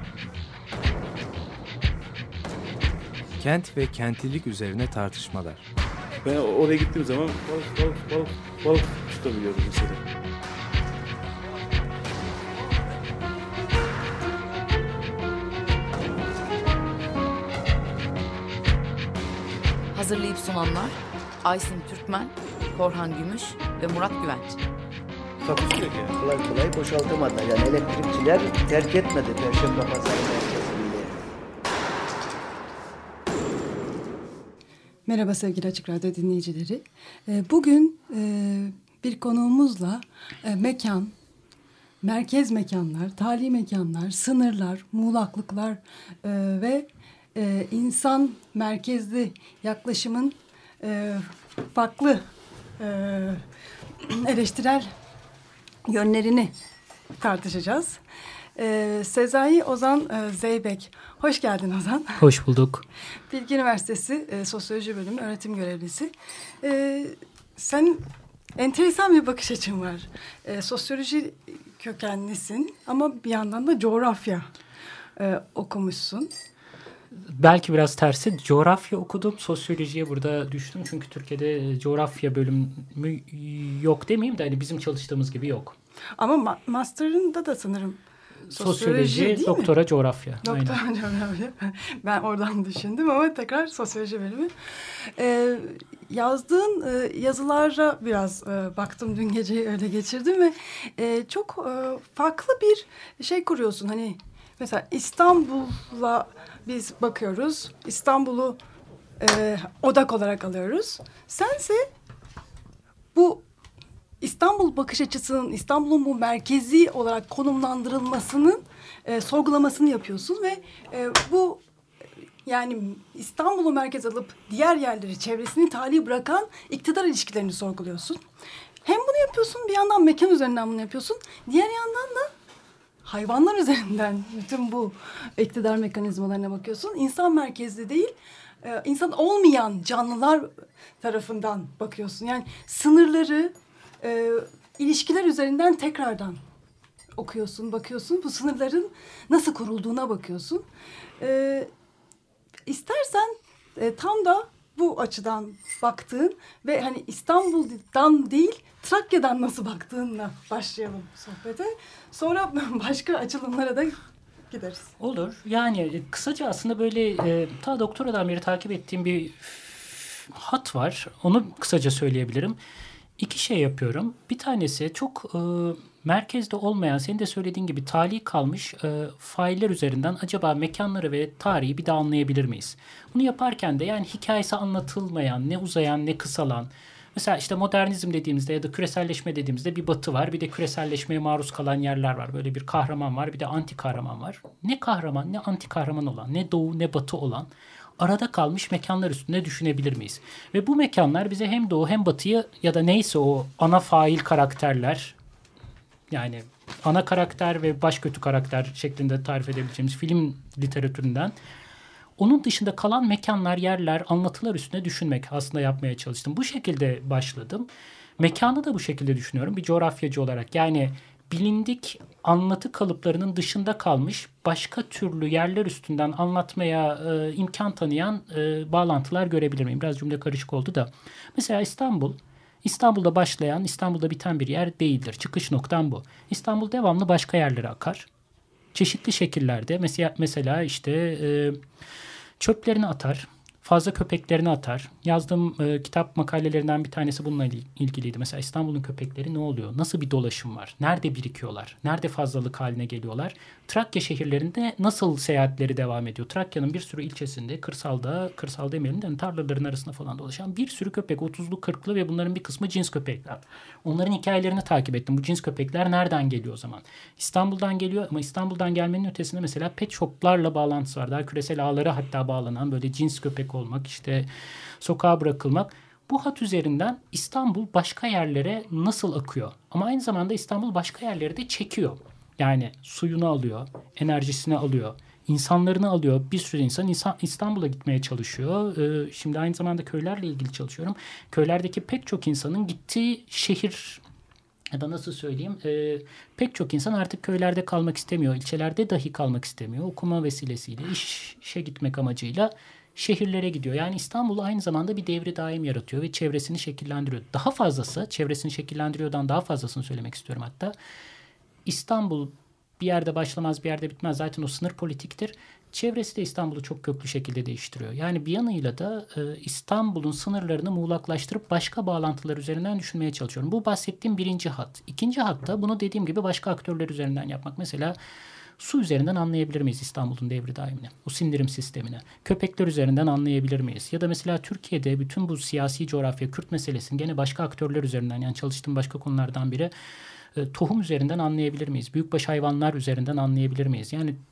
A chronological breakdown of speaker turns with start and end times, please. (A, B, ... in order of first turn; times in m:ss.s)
0:03.4-0:05.6 A
0:06.2-0:10.0 B
0:19.9-0:24.6 C
0:25.4-0:26.1 B
0:26.2-0:31.2 D
0:35.1-0:41.1 E
0:42.0-0:52.2 E
0:52.8-0:53.4 E
0:54.0-0:54.9 E
0:55.8-0:56.5 E
0:57.2-0:58.0 E
0:58.6-1:02.2 E
1:02.2-1:02.8 F
1:03.3-1:14.5 E
1:15.2-1:16.3 E
1:17.2-1:25.8 F
1:26.2-1:29.7 E
1:28.5-1:30.8 F
1:30.4-1:48.6 E
1:49.2-1:51.9 E
1:53.1-1:53.4 E
1:54.2-2:01.6 E
2:02.4-2:08.2 E
2:08.8-2:12.3 E
2:13.0-2:26.4 E
2:27.1-2:30.6 E
2:31.2-2:31.7 E
2:32.6-2:44.9 E
2:45.0-2:52.6 F
2:53.2-3:25.1 F
3:26.1-3:31.3 F
3:32.2-3:37.7 F
3:38.2-3:58.1 F
3:58.7-4:01.6 F
4:02.4-4:34.3 F
4:34.8-4:54.0 F
4:54.7-5:10.7 F
5:11.6-5:28.0 F
5:28.6-5:39.7 F
5:40.3-5:44.2 F